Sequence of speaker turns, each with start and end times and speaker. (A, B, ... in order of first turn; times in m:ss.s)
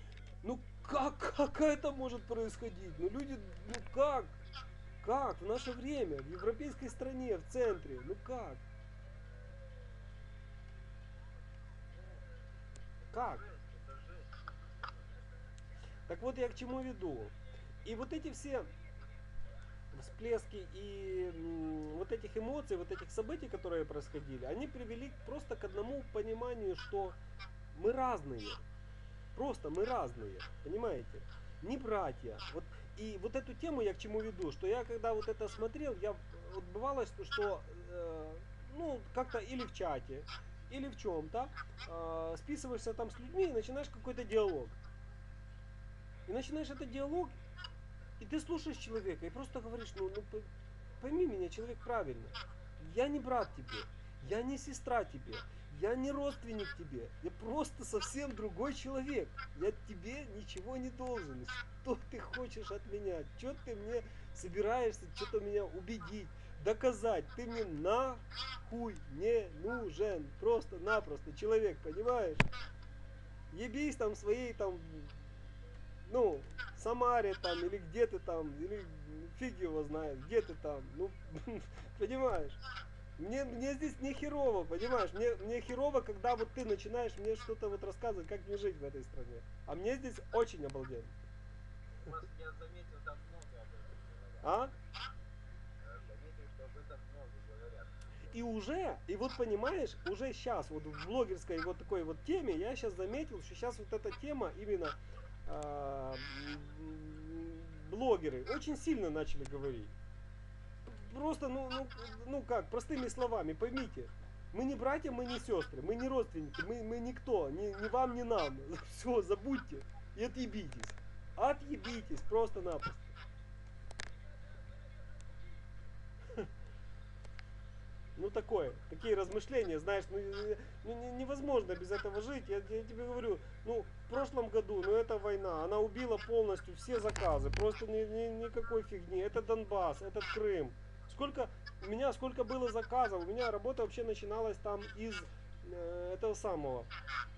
0:00.4-0:04.4 A
0:05.0-0:08.6 A
0:11.9-0:12.4 B
0:13.0-0:15.2 B
0:13.1-0:13.4 A
0:16.1-0:18.7 A
0:19.9-0:27.2 A
0:27.7-0:28.6 A
0:29.3-0:44.8 A
0:46.3-0:47.4 A
0:48.2-1:12.4 A
1:13.5-1:15.2 A
1:16.1-1:22.6 A
1:23.2-1:31.2 A
1:32.0-1:34.7 B
1:34.4-1:34.7 A
1:35.8-1:38.3 B
1:38.3-1:49.9 A
1:50.9-2:03.2 A
2:08.2-2:26.9 A